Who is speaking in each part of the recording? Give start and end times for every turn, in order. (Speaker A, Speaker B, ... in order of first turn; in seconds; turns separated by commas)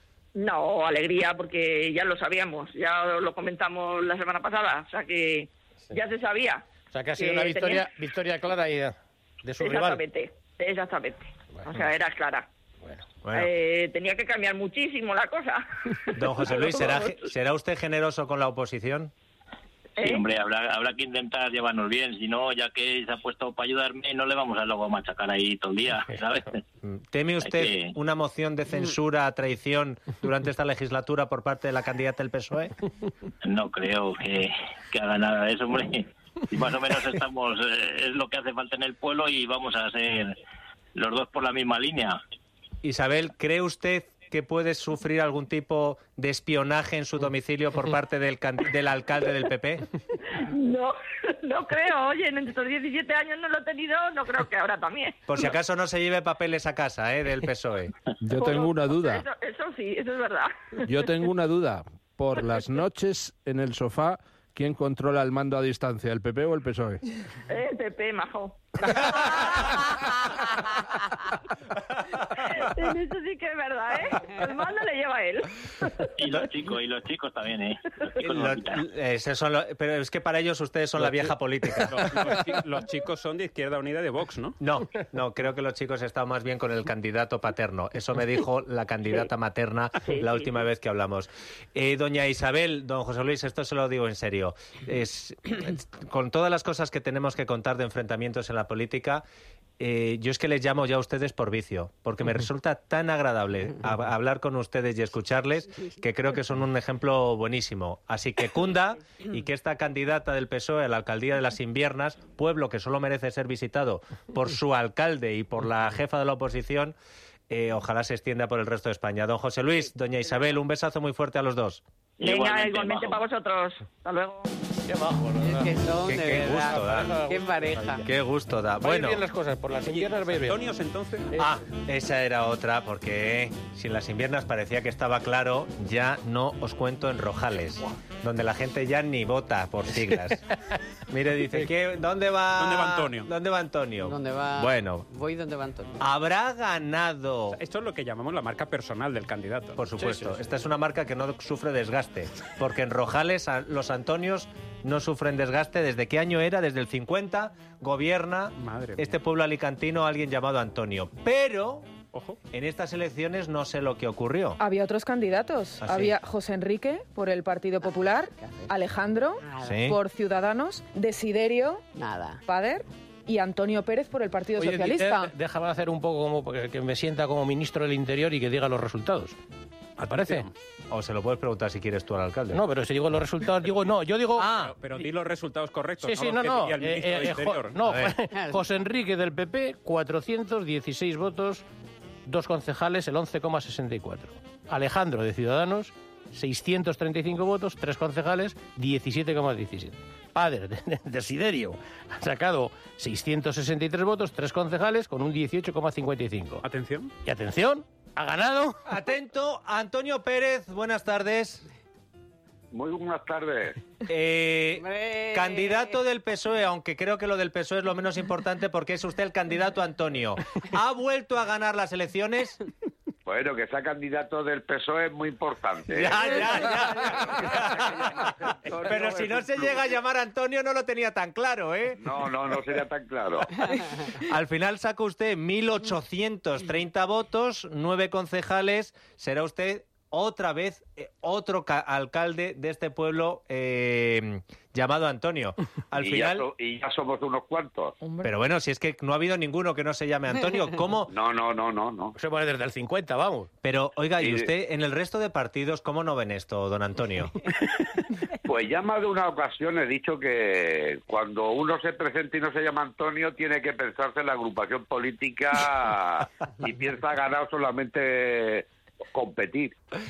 Speaker A: 0.3-7.8, Speaker B: 6.9-10.0, Speaker A: 9.6-12.5, Speaker B: 11.5-11.8, Speaker C: 13.2-13.5, Speaker A: 13.3-17.2, Speaker C: 16.1-19.1, Speaker D: 19.9-26.6, Speaker A: 20.0-20.2, Speaker C: 26.8-32.7, Speaker D: 27.4-27.9, Speaker D: 33.4-40.3, Speaker D: 40.9-42.2, Speaker C: 42.8-49.9, Speaker A: 50.4-55.4, Speaker C: 55.3-57.9, Speaker E: 58.2-59.2, Speaker A: 58.4-60.8, Speaker E: 60.8-67.0, Speaker A: 67.5-69.3, Speaker A: 72.5-76.1, Speaker D: 76.2-78.8, Speaker C: 78.2-82.3, Speaker F: 81.9-84.6, Speaker C: 84.6-99.2, Speaker A: 90.1-90.6, Speaker C: 99.8-116.9, Speaker C: 117.5-121.8, Speaker D: 122.2-123.3, Speaker A: 122.2-124.5, Speaker B: 124.9-125.8, Speaker G: 125.4-128.0, Speaker C: 126.0-127.1, Speaker B: 126.5-128.1, Speaker C: 128.1-129.2, Speaker B: 128.8-130.7, Speaker F: 129.8-131.3, Speaker C: 131.3-140.4, Speaker C: 141.1-145.1, Speaker F: 142.6-143.3, Speaker G: 144.0-146.1, Speaker C: 146.0-147.6, Speaker F: 147.5-149.8, Speaker C: 149.8-161.9, Speaker B: 150.0-150.4, Speaker F: 158.6-159.1, Speaker C: 162.5-164.6, Speaker H: 164.6-171.8, Speaker C: 165.8-166.2, Speaker G: 168.4-168.7, Speaker G: 169.4-169.8, Speaker C: 169.6-170.0, Speaker G: 171.9-172.4, Speaker H: 172.4-175.3, Speaker B: 174.6-179.3, Speaker B: 180.0-180.5, Speaker F: 180.0-180.5, Speaker C: 180.9-182.6, Speaker B: 182.5-185.0, Speaker C: 184.4-184.7, Speaker F: 184.4-187.8, Speaker B: 186.0-191.6, Speaker C: 187.8-188.2, Speaker G: 188.3-188.6, Speaker B: 192.2-206.6, Speaker F: 206.6-207.1, Speaker B: 207.2-208.8, Speaker C: 208.9-211.7, Speaker I: 212.7-213.8, Speaker C: 214.0-222.6, Speaker G: 214.7-216.0, Speaker I: 223.2-229.9, Speaker C: 225.9-228.3, Speaker C: 228.8-232.0, Speaker I: 232.0-233.8, Speaker C: 234.1-246.4, Speaker I: 245.9-247.9, Speaker H: 248.0-248.3, Speaker C: 248.2-251.1, Speaker I: 251.1-252.1, Speaker B: 252.2-253.5, Speaker C: 253.6-257.3, Speaker I: 254.2-254.5, Speaker I: 258.4-269.7